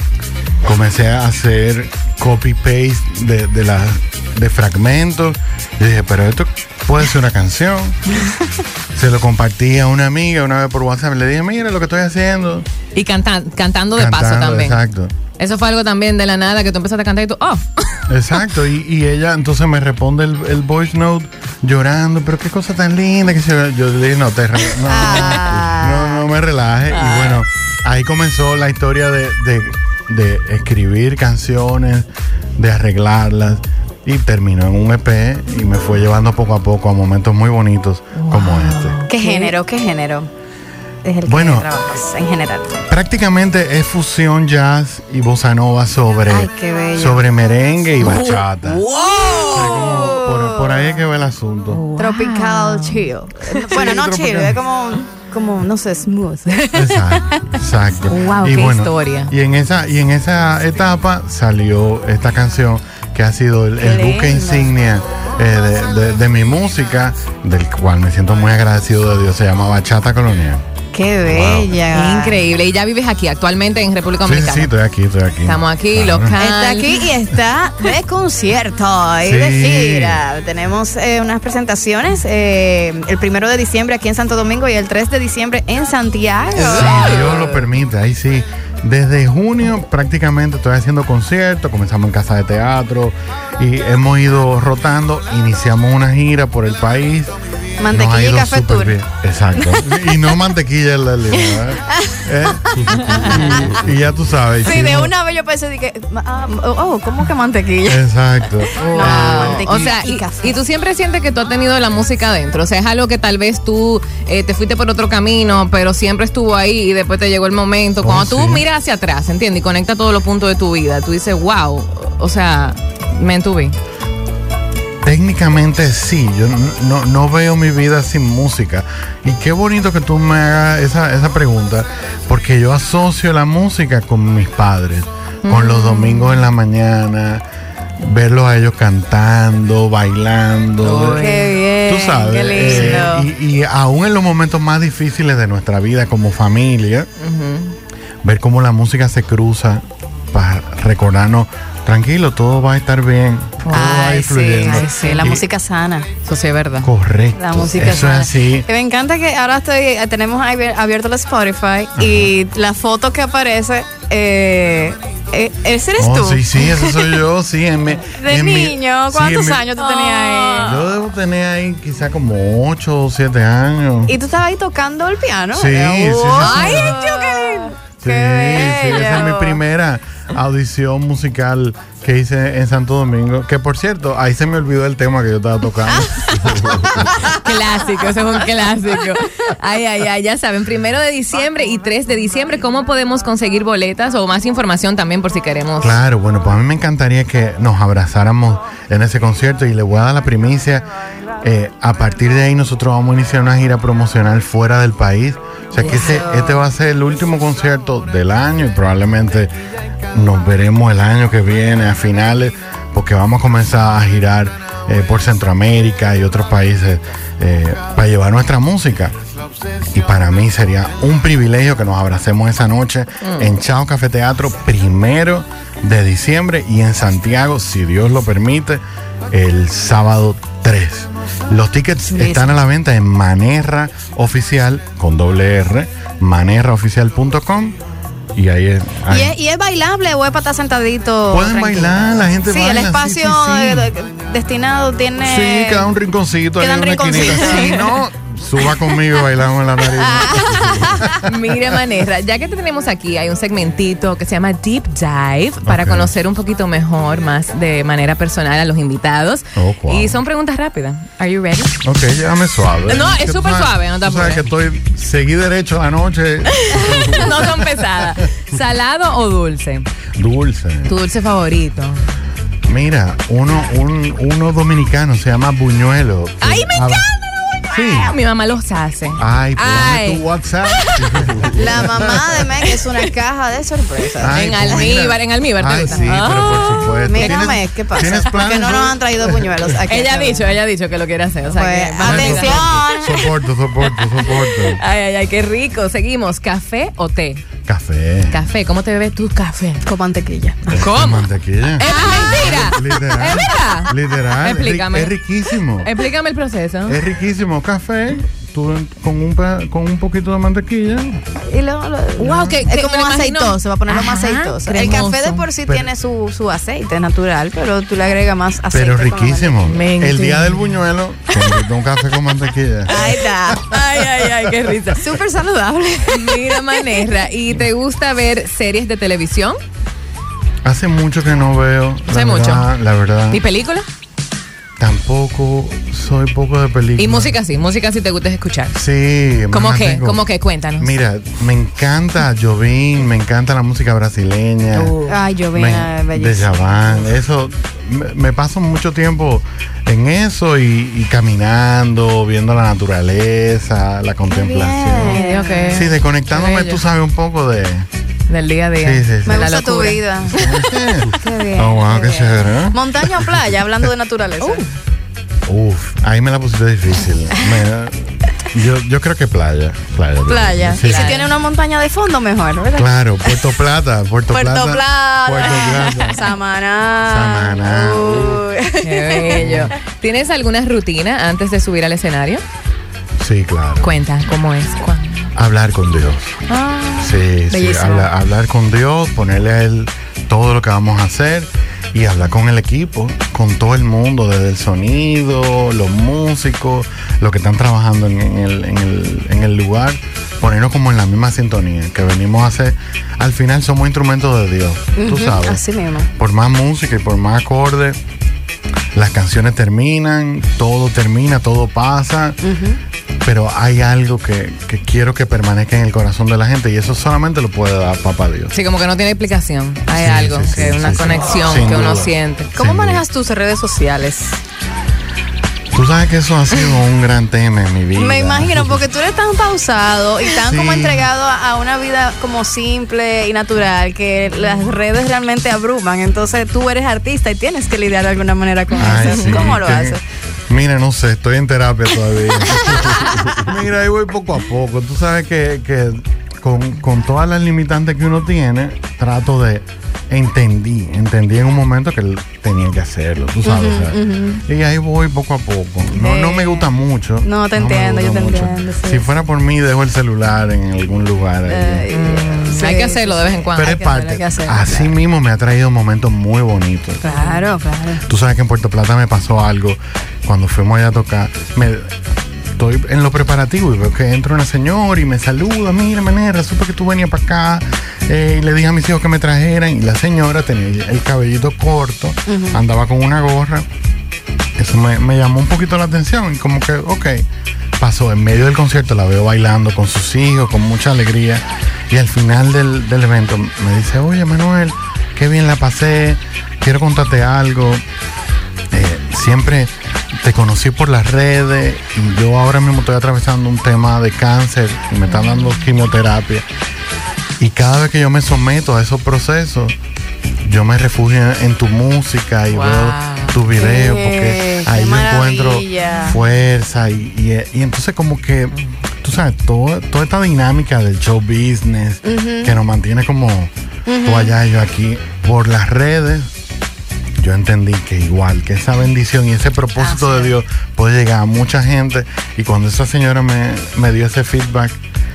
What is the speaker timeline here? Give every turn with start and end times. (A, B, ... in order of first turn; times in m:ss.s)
0:00.6-0:08.0 A
0:08.9-0:12.7 A
0:12.9-0:14.8 B
0:13.9-0:15.1 A
0:15.4-0:18.5 B
0:18.1-0:39.0 A
0:24.8-0:26.2 C
0:25.0-0:25.4 B
0:26.9-0:27.4 B
0:38.2-0:39.6 B
0:39.1-0:40.3 C
0:41.0-0:42.8 C
0:41.2-0:41.7 A
0:42.9-0:48.8 A
0:46.3-0:47.2 C
0:48.0-0:49.8 B
0:49.5-0:51.8 A
0:49.7-0:50.8 C
0:51.7-0:53.9 B
0:52.0-0:57.5 C
0:53.7-0:54.6 A
0:56.7-1:10.6 A
0:58.1-0:59.3 B
1:03.8-1:04.7 C
1:10.9-1:12.4 C
1:11.2-1:11.7 A
1:11.9-1:14.7 B
1:14.2-1:16.4 A
1:15.4-1:17.0 B
1:16.4-1:27.2 C
1:19.2-1:20.2 A
1:26.6-1:27.6 B
1:26.6-1:37.3 A
1:37.8-1:39.0 C
1:37.9-1:45.1 A
1:39.6-1:40.1 C
1:41.5-1:43.8 C
1:44.6-1:50.6 C
1:47.8-1:49.8 A
1:48.8-2:03.8 B
1:58.0-1:58.7 A
2:05.0-2:17.4 A
2:15.4-2:16.5 B
2:18.0-2:21.3 A
2:20.8-2:21.6 B
2:21.2-2:23.3 C
2:21.8-2:27.1 A
2:22.6-2:23.1 B
2:27.2-2:27.8 B
2:28.2-2:35.4 A
2:33.6-2:35.4 B
2:33.7-2:36.1 C
2:36.2-2:36.9 B
2:36.8-2:38.7 A
2:37.4-2:47.2 C
2:42.0-2:42.3 A
2:46.0-2:49.6 A
2:48.1-2:50.8 C
2:49.8-2:50.9 B
2:50.6-2:54.2 A
2:54.0-2:59.6 C
2:55.5-2:57.0 A
2:56.4-2:57.8 B
2:58.0-3:06.9 A
3:07.0-3:07.4 C
3:07.2-3:16.0 B
3:15.8-3:20.9 A
3:21.4-3:29.5 A
3:25.8-3:26.7 C
3:30.1-3:39.2 A
3:39.9-3:57.8 A
3:43.2-3:43.5 B
3:52.0-3:52.6 C
3:58.3-3:59.3 A
3:59.1-4:05.9 C
4:01.3-4:03.9 A
4:05.2-4:11.6 A
4:06.6-4:08.0 C
4:07.5-4:07.8 B
4:09.8-4:11.0 C
4:11.0-4:21.8 B
4:15.6-4:16.1 A
4:19.5-4:20.2 A
4:21.8-4:28.2 A
4:22.9-4:24.5 B
4:26.5-4:29.9 B
4:30.2-4:31.0 A
4:30.9-4:32.1 B
4:32.6-4:37.1 A
4:36.4-4:41.3 B
4:37.7-4:38.2 A
4:39.2-4:42.0 A
4:41.5-4:44.9 C
4:42.6-4:43.1 B
4:44.2-4:49.3 A
4:44.3-4:48.3 B
4:46.2-4:50.6 C
4:49.9-4:52.9 B
4:51.5-4:53.3 C
4:52.0-4:54.8 A
4:53.8-4:57.4 B
4:57.6-4:58.4 A
4:58.2-4:59.8 B
4:59.8-5:00.8 C
5:00.7-5:05.9 A
5:00.8-5:05.1 B
5:05.8-5:07.0 B
5:06.9-5:11.2 A
5:11.4-5:19.6 C
5:12.2-5:15.5 B
5:15.6-5:15.9 A
5:18.7-5:24.3 A
5:19.6-5:20.8 B
5:22.9-5:24.3 C
5:22.9-5:25.1 B
5:24.9-5:26.8 C
5:26.0-5:29.6 B
5:30.6-5:33.4 A
5:32.1-5:32.7 B
5:33.3-5:33.9 B
5:34.8-5:37.4 A
5:37.0-5:38.8 B
5:38.7-5:40.2 A
5:39.5-5:40.9 B
5:40.8-5:44.9 A
5:44.7-5:45.2 B
5:45.0-5:47.0 C
5:45.5-5:57.9 A
5:54.3-5:55.7 C
5:55.0-5:56.9 B
5:58.3-6:00.6 B
5:58.8-5:59.5 A
5:59.2-6:00.4 C
6:00.3-6:03.2 A
6:01.1-6:04.6 C
6:04.4-6:04.8 B
6:05.4-6:11.2 A
6:10.3-6:13.4 C
6:10.8-6:11.3 B
6:12.8-6:16.3 A
6:14.3-6:19.5 C
6:17.0-6:18.4 A
6:18.8-6:22.4 B
6:19.4-6:19.7 A
6:23.2-6:23.9 A
6:23.8-6:25.3 B
6:25.4-6:26.4 A
6:26.5-6:27.0 B
6:27.0-6:45.6 A
6:27.5-6:28.1 C
6:44.9-6:46.1 C
6:46.2-6:48.0 A
6:48.9-6:52.4 A
6:52.4-6:52.8 C
6:53.2-6:58.5 A
6:58.5-7:02.5 B
6:59.9-7:03.0 A
7:02.6-7:04.4 C
7:05.7-7:08.8 A
7:07.9-7:20.0 C
7:10.3-7:11.1 A
7:18.7-7:41.9 A
7:18.8-7:19.6 B
7:22.5-7:23.3 C
7:33.4-7:34.4 C
7:35.9-7:36.7 C
7:37.2-7:39.1 C
7:41.5-7:43.5 C
7:41.9-7:44.2 B
7:43.5-7:47.0 A
7:44.2-7:44.9 C
7:47.0-7:47.5 B
7:47.0-7:48.0 C
7:48.0-7:51.9 A
7:52.6-8:03.6 A
8:02.3-8:02.6 C
8:04.6-8:07.2 A
8:07.8-8:17.8 A
8:18.7-8:26.4 A
8:25.0-8:25.8 B
8:27.4-8:29.8 A
8:30.4-8:43.5 A
8:32.5-8:33.4 B
8:33.6-8:36.1 C
8:42.0-8:42.6 C
8:43.9-8:44.4 C
8:44.0-8:46.3 A
8:47.2-8:54.8 A
8:49.8-8:50.3 C